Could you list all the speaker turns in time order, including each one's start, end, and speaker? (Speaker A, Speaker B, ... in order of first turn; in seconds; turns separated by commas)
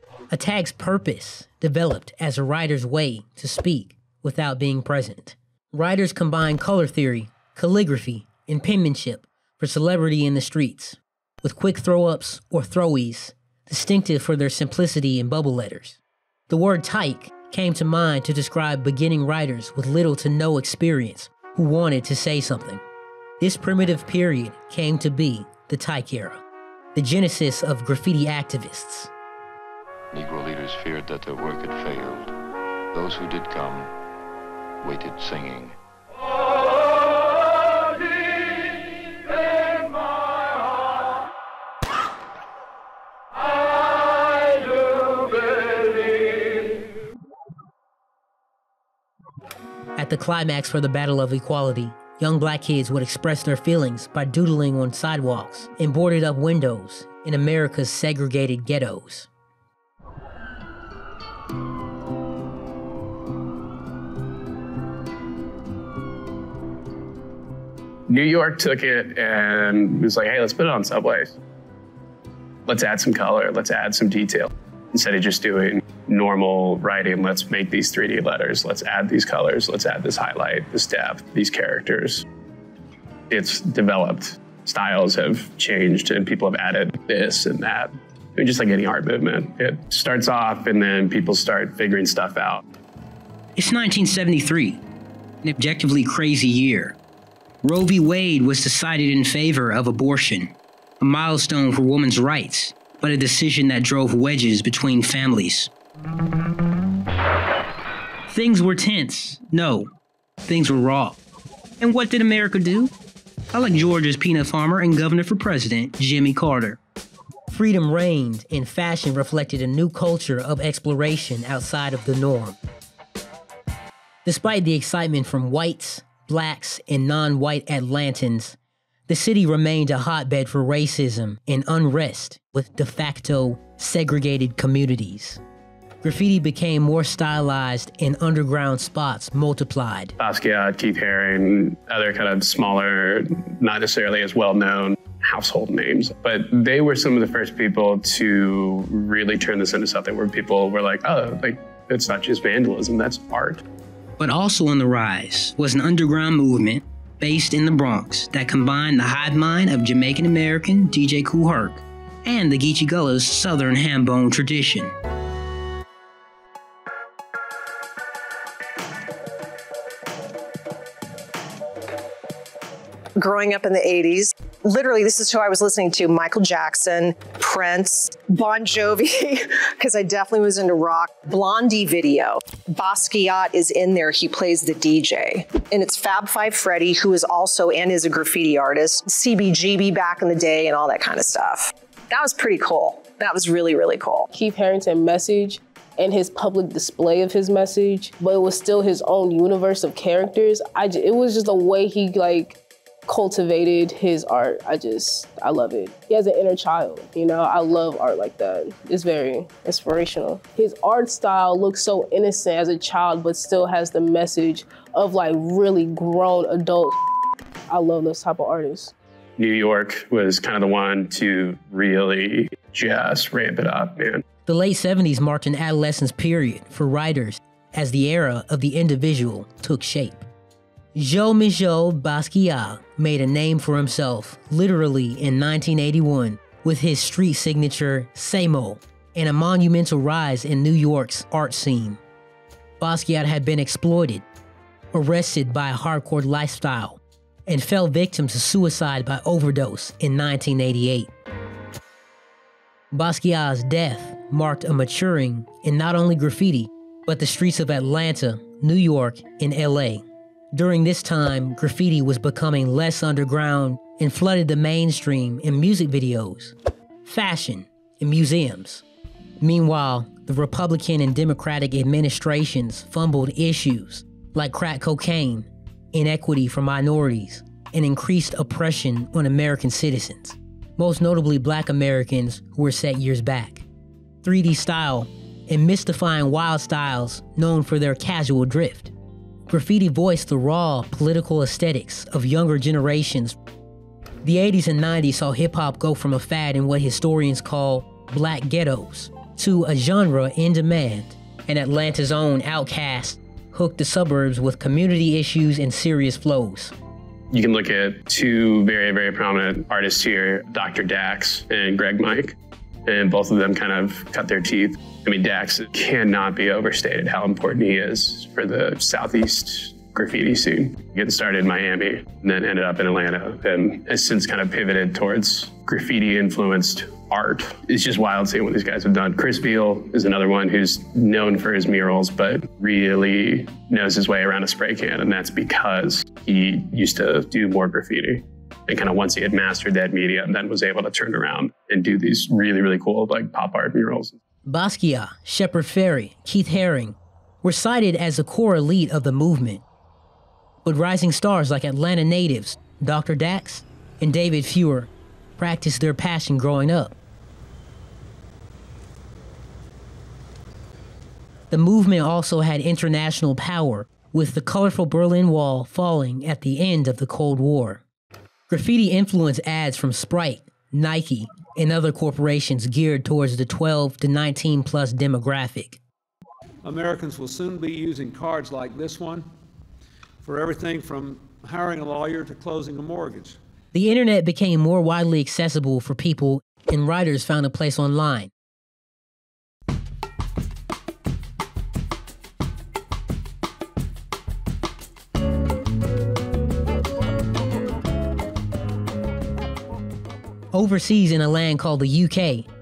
Speaker A: 0.3-22.8, Speaker A: 23.4-26.4, Speaker A: 26.9-29.1, Speaker B: 30.1-32.3, Speaker B: 32.9-33.9, Speaker B: 34.8-35.8, Speaker A: 50.0-59.3, Speaker C: 68.1-71.4, Speaker C: 72.7-82.3, Speaker C: 83.3-92.6, Speaker A: 93.6-94.8, Speaker A: 95.4-97.0, Speaker A: 97.6-105.7, Speaker A: 108.3-109.9, Speaker A: 110.5-111.2, Speaker A: 111.8-112.9, Speaker A: 113.5-116.8, Speaker A: 117.5-122.6, Speaker A: 124.2-128.6, Speaker A: 129.1-135.4, Speaker A: 136.0-140.2, Speaker C: 140.2-153.7, Speaker A: 154.2-164.9, Speaker D: 173.2-194.3, Speaker E: 194.3-217.0, Speaker E: 217.7-218.9, Speaker C: 219.4-224.2, Speaker A: 224.5-230.2, Speaker A: 230.9-242.0, Speaker A: 242.8-244.2, Speaker A: 244.9-251.1, Speaker A: 252.9-268.8, Speaker A: 269.4-283.6, Speaker A: 284.2-288.9, Speaker A: 289.5-293.4, Speaker A: 294.2-306.7, Speaker C: 307.3-344.2, Speaker A: 344.4-349.6, Speaker A: 350.6-356.9, Speaker A: 361.5-367.8, Speaker A: 368.5-375.8, Speaker F: 376.6-379.3, Speaker F: 380.2-383.4, Speaker A: 383.7-388.3, Speaker A: 400.5-402.5